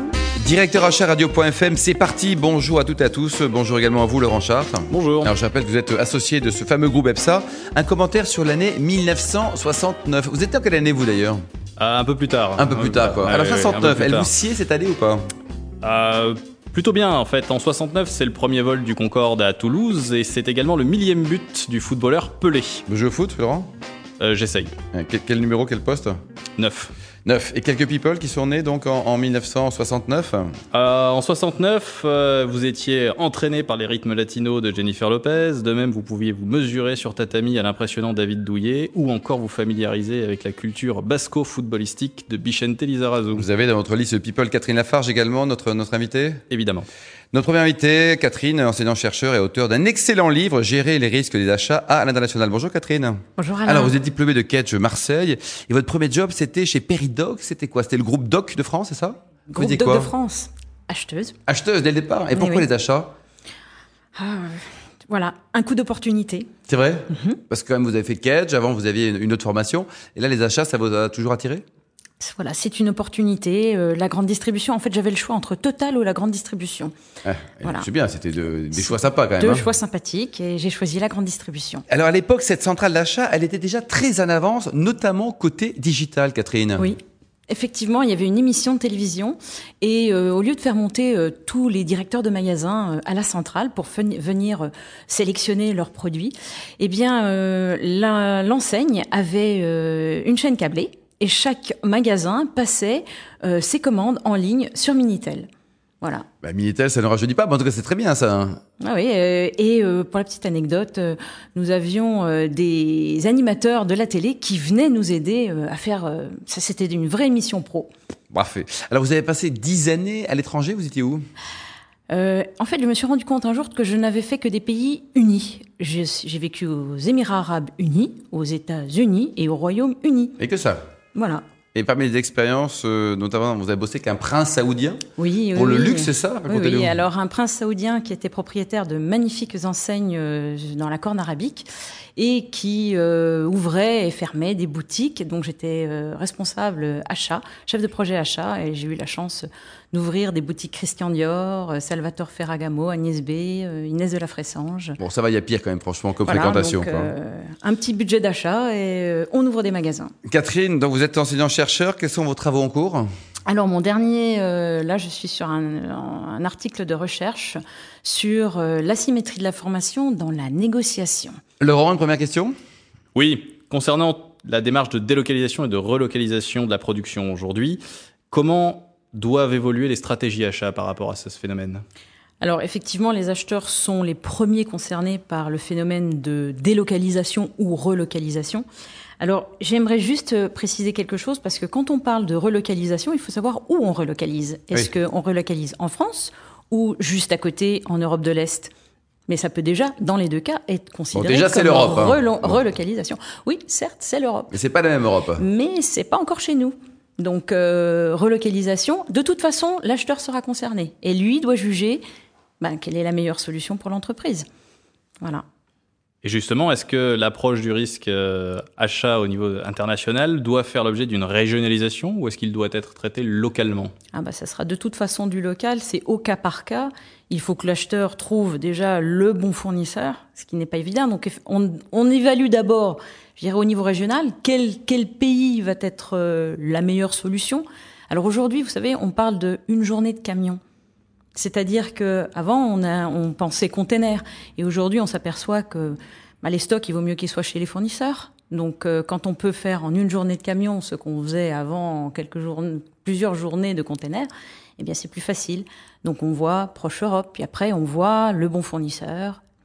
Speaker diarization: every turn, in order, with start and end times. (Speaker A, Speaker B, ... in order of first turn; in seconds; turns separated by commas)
Speaker A: 0.4-11.4, Speaker B: 4.9-5.3, Speaker B: 11.8-14.3, Speaker A: 12.6-15.2, Speaker B: 15.8-22.8, Speaker A: 22.9-23.7, Speaker B: 24.2-24.7, Speaker A: 24.9-26.2, Speaker B: 26.6-26.9, Speaker A: 27.2-30.6, Speaker B: 30.7-43.5, Speaker A: 43.3-46.4, Speaker B: 46.5-46.9, Speaker A: 47.3-60.1, Speaker C: 53.4-54.0, Speaker C: 59.5-61.4, Speaker A: 61.5-63.1, Speaker C: 62.3-62.7, Speaker C: 64.1-66.5, Speaker A: 66.7-71.6, Speaker C: 67.1-67.4, Speaker C: 72.2-76.9, Speaker A: 77.2-79.7, Speaker C: 78.7-81.8, Speaker A: 81.9-86.9, Speaker C: 86.8-105.5, Speaker C: 106.0-106.3, Speaker A: 106.4-108.6, Speaker C: 108.8-117.9, Speaker A: 118.3-121.2, Speaker C: 122.1-130.4, Speaker A: 130.4-130.8, Speaker C: 131.1-131.4, Speaker A: 131.7-135.0, Speaker C: 135.2-155.0, Speaker A: 135.5-137.0, Speaker A: 155.0-157.1, Speaker C: 156.2-160.1, Speaker A: 160.2-163.1, Speaker C: 163.4-171.4, Speaker A: 171.6-172.5, Speaker B: 173.1-181.8, Speaker C: 182.4-188.6, Speaker C: 189.2-198.7, Speaker C: 199.3-204.5, Speaker A: 201.1-202.6, Speaker A: 204.5-205.4, Speaker C: 205.4-212.0, Speaker C: 212.6-214.4, Speaker B: 216.2-223.9, Speaker C: 224.1-240.6, Speaker C: 241.3-259.4